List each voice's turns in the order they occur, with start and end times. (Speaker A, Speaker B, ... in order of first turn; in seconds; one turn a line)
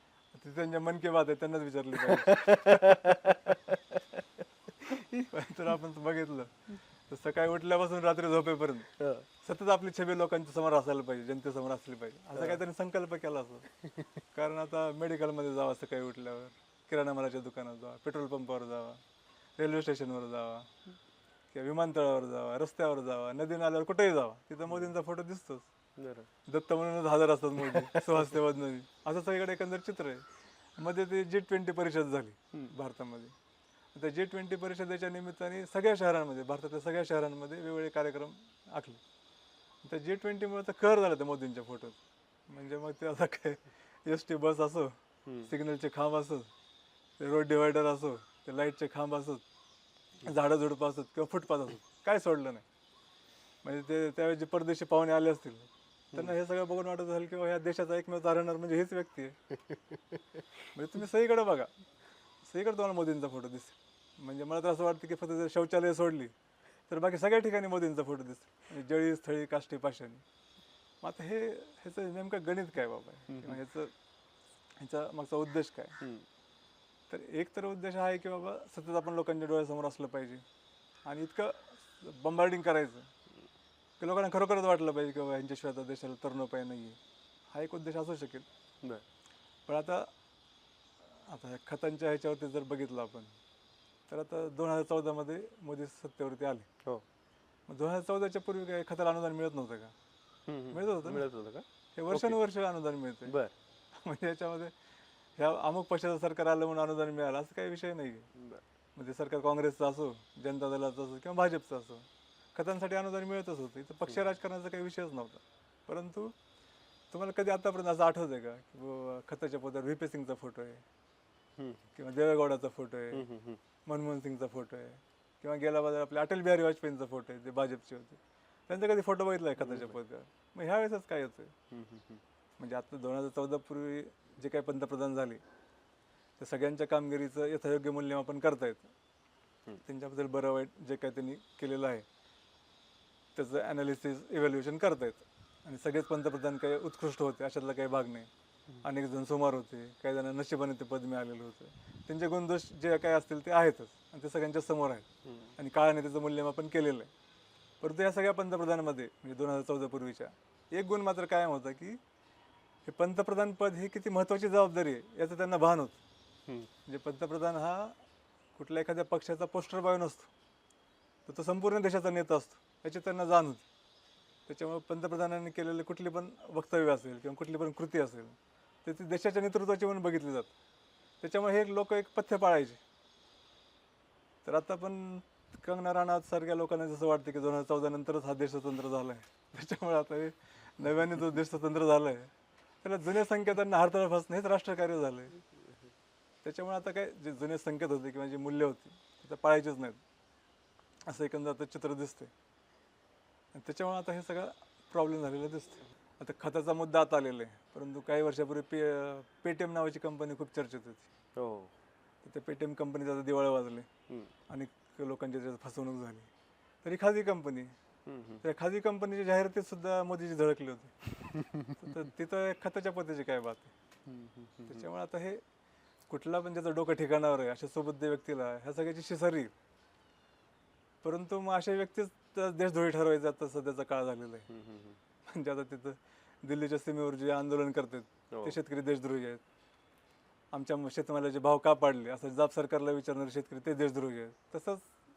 Speaker A: 0.3-3.3
Speaker B: 2.0-5.3
Speaker A: 5.3-13.7
Speaker B: 9.0-9.2
Speaker A: 14.3-19.0
Speaker A: 19.6-20.7
Speaker A: 21.5-25.6
Speaker B: 24.7-24.9
Speaker B: 26.0-26.3
Speaker A: 26.5-30.2
Speaker B: 27.7-28.1
Speaker A: 30.8-33.3
Speaker A: 33.9-39.0
Speaker A: 39.8-44.9
Speaker B: 45.2-45.5
Speaker A: 45.4-46.5
Speaker A: 47.2-49.4
Speaker A: 50.2-52.6
Speaker A: 53.6-59.4
Speaker A: 60.7-61.7
Speaker A: 62.4-66.3
Speaker A: 66.9-70.2
Speaker A: 71.0-73.9
Speaker B: 73.3-73.6
Speaker A: 74.8-76.0
Speaker B: 76.0-76.2
Speaker A: 77.1-80.4
Speaker A: 81.0-83.1
Speaker A: 84.0-87.0
Speaker A: 87.5-88.5
Speaker A: 89.7-90.1
Speaker A: 91.2-93.3
Speaker A: 94.1-96.7
Speaker A: 97.7-99.9
Speaker B: 100.5-102.4
Speaker A: 100.7-101.3
Speaker A: 102.0-103.4
Speaker B: 103.3-103.5
Speaker A: 104.0-104.7
Speaker A: 105.4-108.3
Speaker B: 108.3-108.6
Speaker A: 109.0-116.3
Speaker A: 117.1-120.8
Speaker B: 121.6-121.9
Speaker A: 121.9-123.2
Speaker B: 123.1-123.6
Speaker A: 123.8-131.5
Speaker B: 129.6-130.0
Speaker B: 131.7-132.2
Speaker A: 132.6-135.4
Speaker A: 136.4-138.9
Speaker A: 139.8-142.0
Speaker A: 143.3-148.3
Speaker A: 148.8-155.1
Speaker B: 155.2-155.5
Speaker A: 155.6-157.1
Speaker A: 157.8-162.0
Speaker A: 162.8-166.0
Speaker A: 166.8-168.0
Speaker A: 168.5-170.3
Speaker A: 171.2-173.7
Speaker A: 174.5-180.5
Speaker A: 181.2-182.8
Speaker A: 184.4-192.3
Speaker A: 192.8-195.4
Speaker A: 196.4-200.0
Speaker A: 201.1-202.3
Speaker A: 203.5-211.1
Speaker B: 211.4-211.7
Speaker A: 212.2-213.9
Speaker A: 214.5-216.3
Speaker A: 216.8-217.7
Speaker B: 218.1-218.4
Speaker A: 218.4-221.1
Speaker B: 221.3-221.7
Speaker A: 221.7-223.7
Speaker B: 224.1-224.9
Speaker A: 224.7-225.4
Speaker A: 226.1-229.5
Speaker A: 231.0-234.5
Speaker B: 234.5-235.0
Speaker A: 235.3-239.4
Speaker B: 238.3-238.6
Speaker A: 240.5-244.9